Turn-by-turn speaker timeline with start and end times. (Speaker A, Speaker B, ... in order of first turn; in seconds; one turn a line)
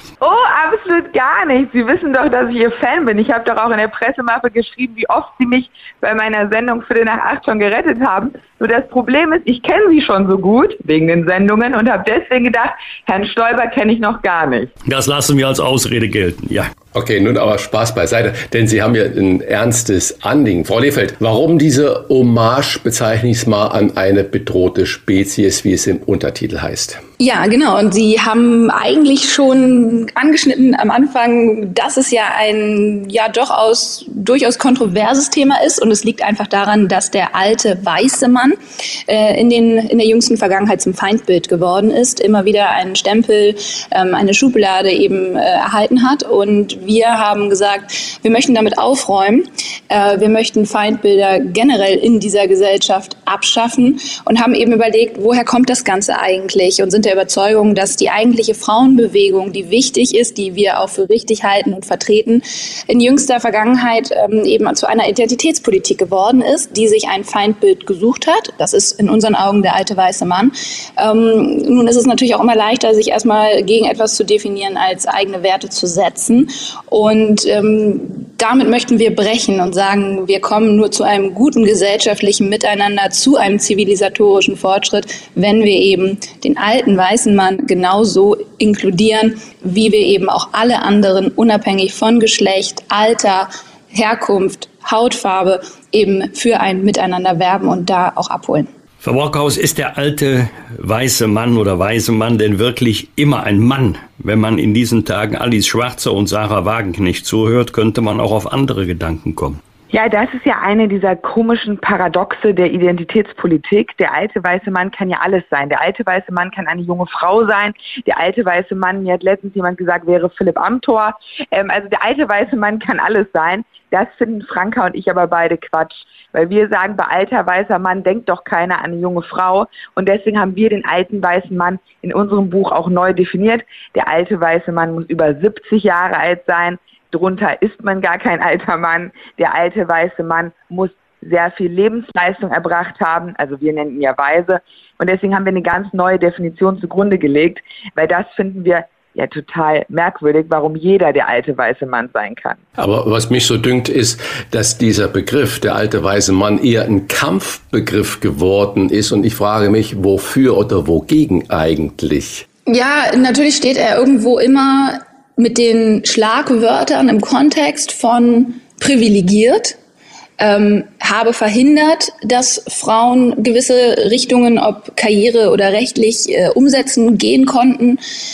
Speaker A: 0.2-14.7
Speaker B: 14.9-16.7
Speaker C: 16.9-27.0
Speaker D: 27.2-38.5
Speaker D: 39.1-98.7
Speaker B: 99.0-109.6
Speaker A: 109.9-152.6
Speaker C: 152.8-162.4
Speaker D: 162.7-169.8
Speaker D: 170.4-178.0